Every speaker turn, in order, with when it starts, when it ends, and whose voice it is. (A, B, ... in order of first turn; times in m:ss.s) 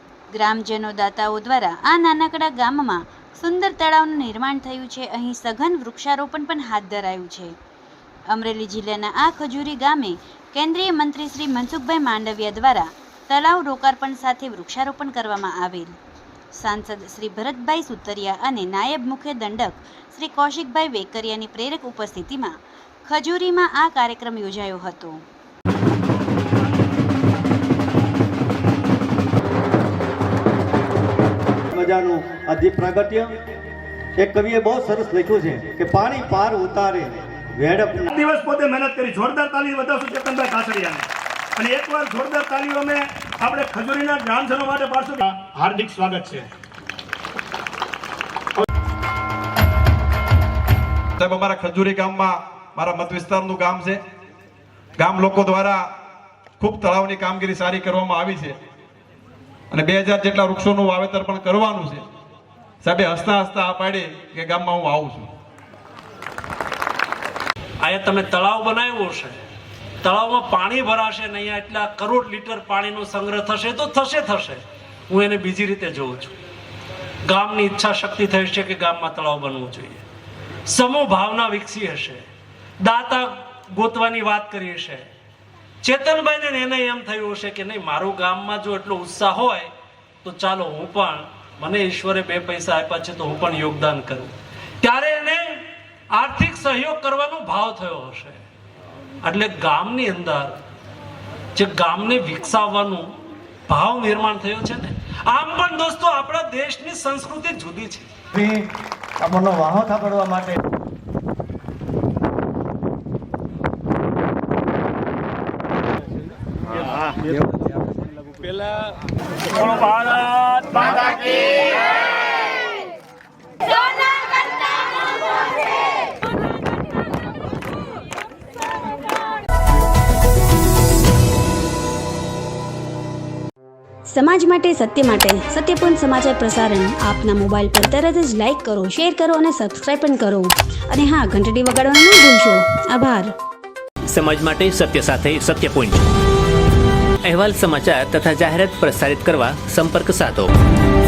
0:00.3-0:07.5 A
0:08.3-0:16.0 A
0:16.6-0:22.5 A
0:23.0-0:25.2 A
0:31.7-0:33.4 B
0:34.2-0:38.1 B
0:38.1-0:46.5 C
0:51.2-0:54.0 D
0:55.0-0:55.8 D
0:56.6-0:58.6 D
0:59.7-1:02.0 D
1:02.8-1:05.3 D
1:07.8-1:09.4 E
1:10.0-1:16.4 E
1:17.3-1:20.0 E
1:20.7-1:22.3 E
1:22.8-1:25.1 E
1:25.8-1:29.7 E
1:30.2-1:38.4 E
1:39.2-1:40.5 E
1:41.6-1:43.1 E
1:43.7-1:48.1 E
1:48.3-1:48.7 B
1:49.2-1:50.6 B
1:59.6-2:01.1 E
2:14.1-2:23.3 F
2:24.1-2:26.0 G
2:27.2-2:30.5 G